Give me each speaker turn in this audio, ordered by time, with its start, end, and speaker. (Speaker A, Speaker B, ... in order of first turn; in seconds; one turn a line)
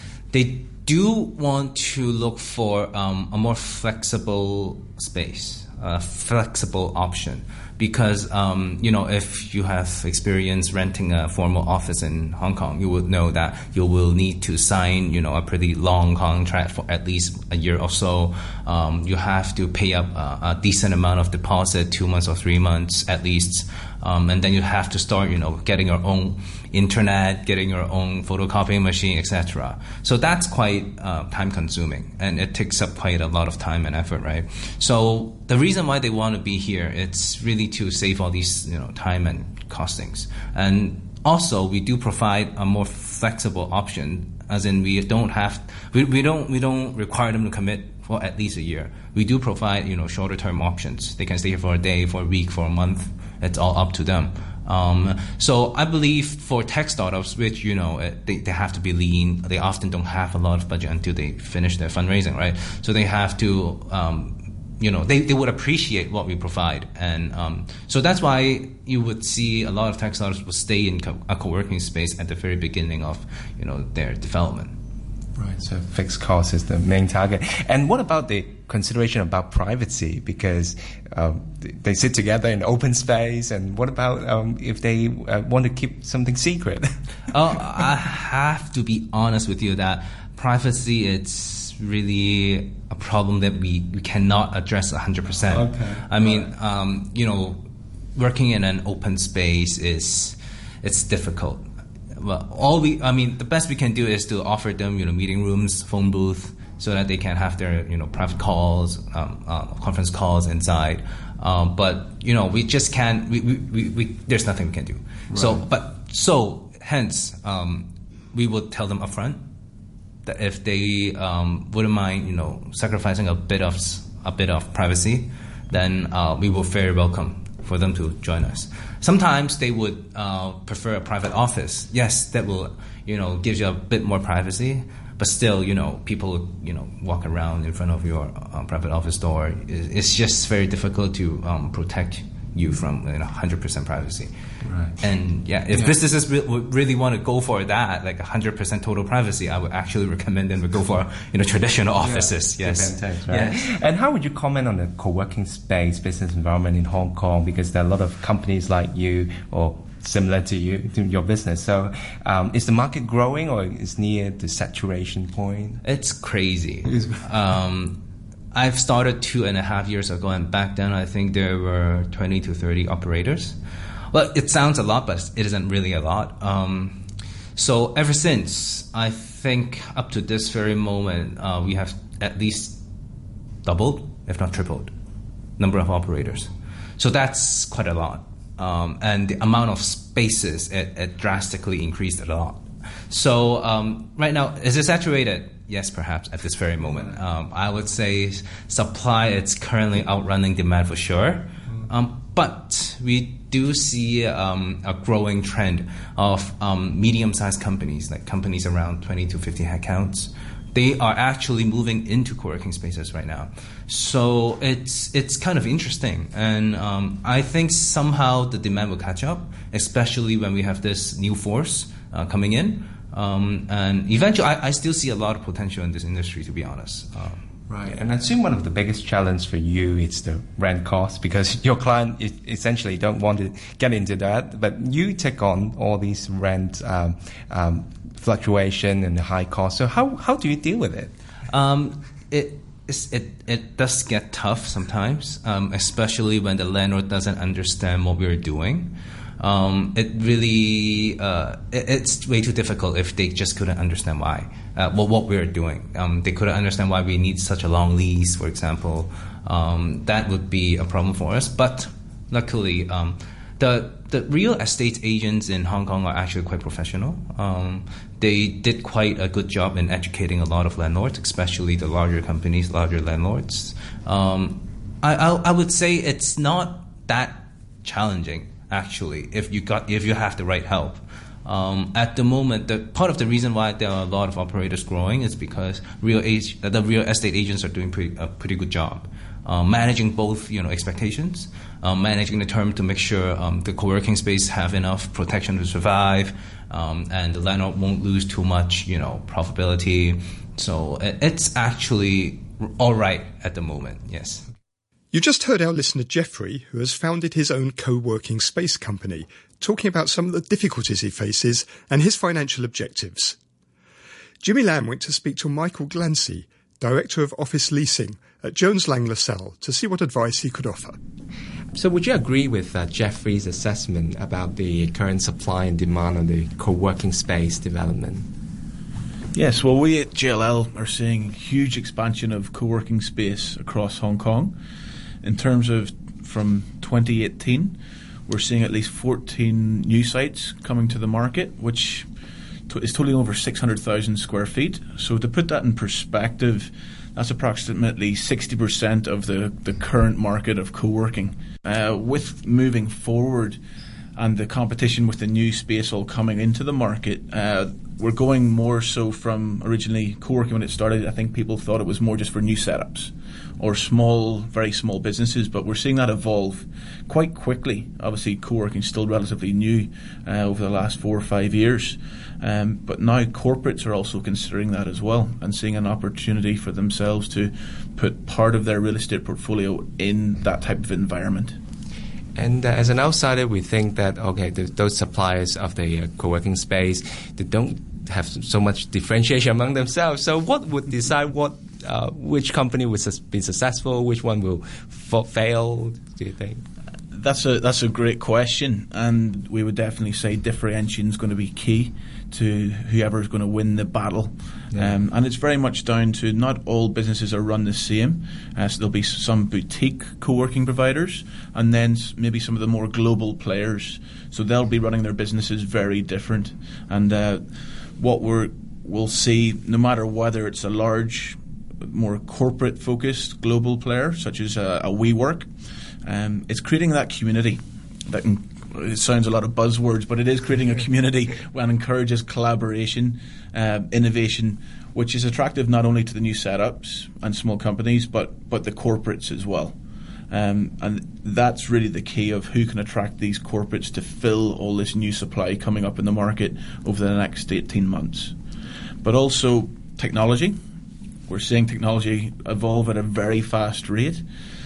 Speaker A: 0.3-74.8
Speaker B: 75.4-86.9
Speaker A: 87.3-101.6
Speaker B: 95.5-96.5
Speaker A: 102.2-119.4
Speaker B: 115.3-115.6
Speaker A: 120.3-144.3
Speaker B: 144.6-145.0
Speaker A: 145.0-153.6
Speaker B: 152.0-165.8
Speaker A: 165.8-173.6
Speaker A: 174.1-177.0
Speaker A: 177.6-182.8
Speaker A: 183.6-184.9
Speaker A: 185.6-227.4
Speaker B: 227.7-241.1
Speaker A: 241.5-304.4
Speaker C: 305.1-313.4
Speaker C: 314.4-321.0
Speaker B: 321.7-328.3
Speaker D: 329.3-334.6
Speaker D: 335.2-342.1
Speaker D: 342.7-353.6
Speaker D: 354.2-381.6
Speaker B: 382.4-396.6
Speaker D: 397.1-417.5
Speaker D: 418.0-425.5
Speaker D: 426.0-439.8
Speaker D: 440.3-448.4
Speaker D: 449.0-450.6
Speaker D: 451.3-454.2